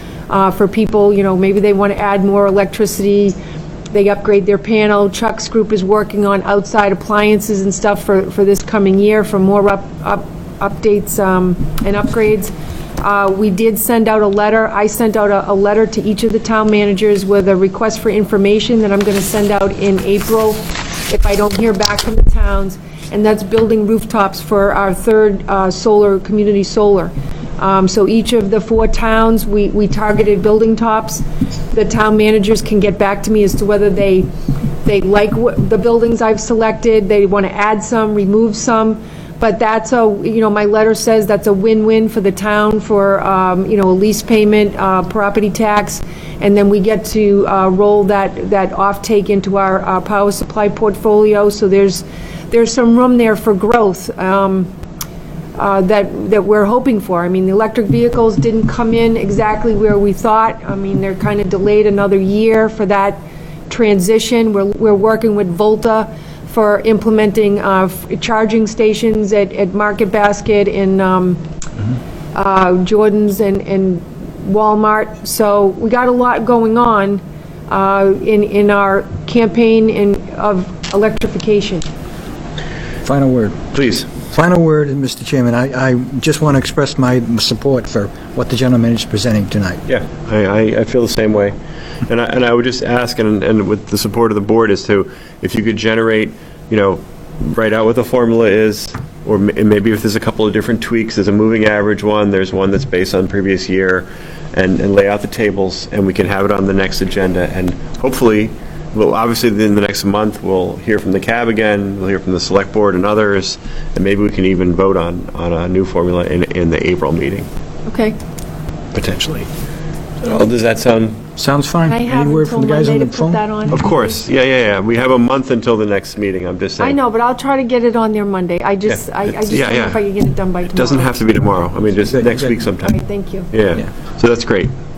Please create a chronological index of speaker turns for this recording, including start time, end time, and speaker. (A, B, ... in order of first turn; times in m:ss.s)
0:00.3-0:03.4 A
0:03.9-0:34.3 A
0:34.8-0:54.7 A
0:55.6-1:11.4 A
1:12.3-1:21.9 A
1:23.0-1:23.6 B
1:23.7-1:24.1 C
1:24.3-1:29.8 B
1:29.9-1:57.5 C
1:57.9-1:58.2 A
1:58.9-1:59.5 C
2:00.2-2:01.2 C
2:01.4-2:03.8 B
2:01.9-2:04.2 A
2:03.7-2:07.0 C
2:06.8-2:11.5 A
2:08.9-2:10.0 C
2:10.7-2:14.7 C
2:12.1-2:12.5 B
2:12.8-2:13.5 A